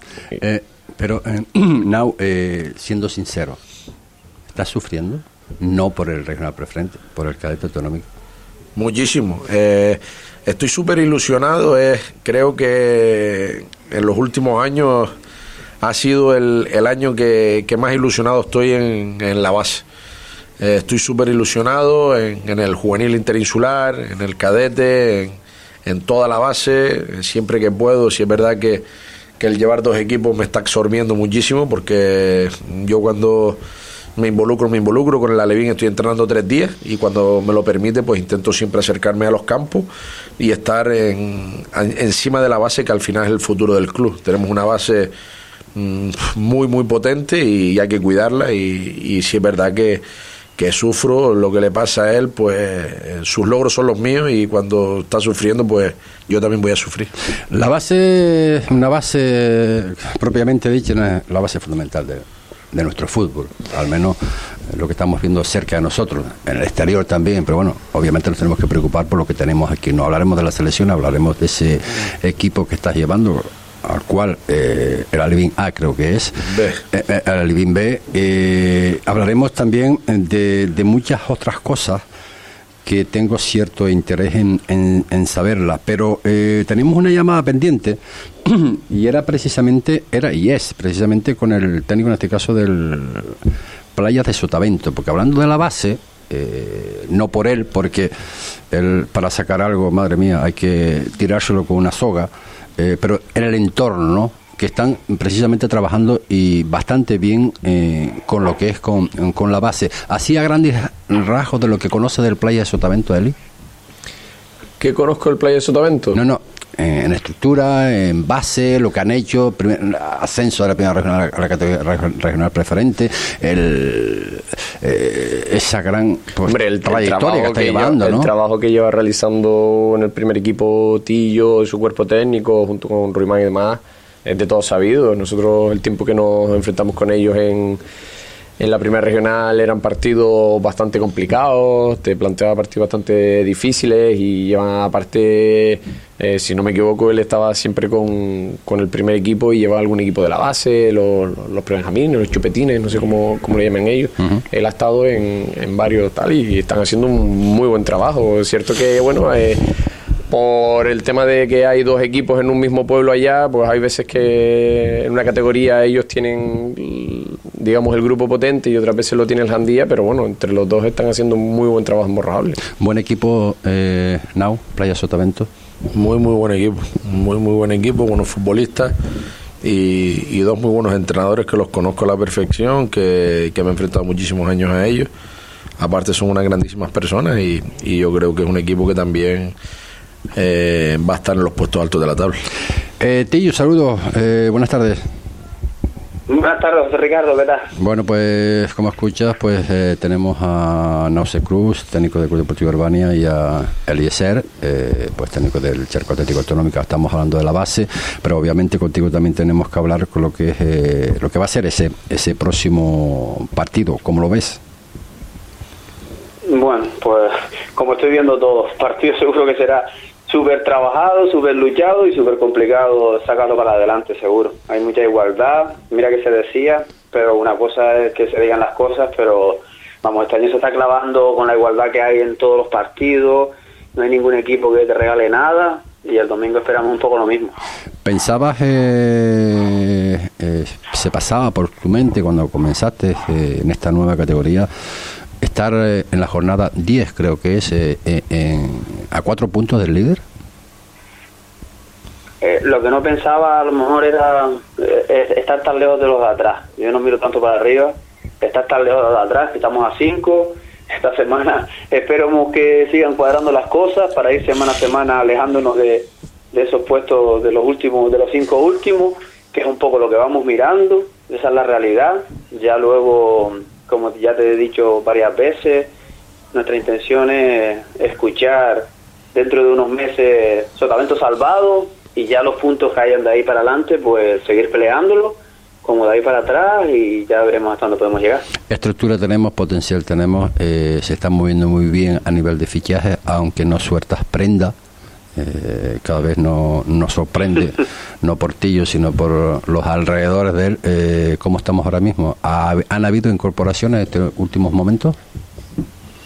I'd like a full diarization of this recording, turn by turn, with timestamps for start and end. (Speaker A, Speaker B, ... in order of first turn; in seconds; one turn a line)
Speaker A: 0.4-3.6
Speaker A: 4.5-8.0
Speaker B: 8.8-15.1
Speaker B: 15.8-19.8
Speaker B: 20.6-28.8
Speaker B: 29.4-33.6
Speaker B: 34.2-39.9
Speaker B: 40.4-45.1
Speaker B: 45.7-50.0
Speaker B: 50.6-57.1
Speaker A: 57.5-64.2
Speaker A: 64.7-82.0
Speaker A: 82.8-98.1
Speaker A: 98.7-113.3
Speaker C: 114.8-116.2
Speaker A: 116.1-128.3
Speaker C: 126.5-137.8
Speaker C: 138.6-159.7
Speaker C: 160.3-172.6
Speaker A: 172.8-175.5
Speaker B: 175.9-178.9
Speaker B: 179.6-185.1
Speaker B: 185.8-189.5
Speaker B: 190.3-192.4
Speaker A: 193.0-195.0
Speaker D: 196.3-197.7
Speaker A: 197.8-214.6
Speaker D: 216.4-237.5
Speaker A: 238.0-244.7
Speaker A: 245.4-250.2
Speaker D: 252.4-275.9
Speaker D: 276.5-288.4
Speaker A: 288.7-294.7
Speaker A: 295.4-305.1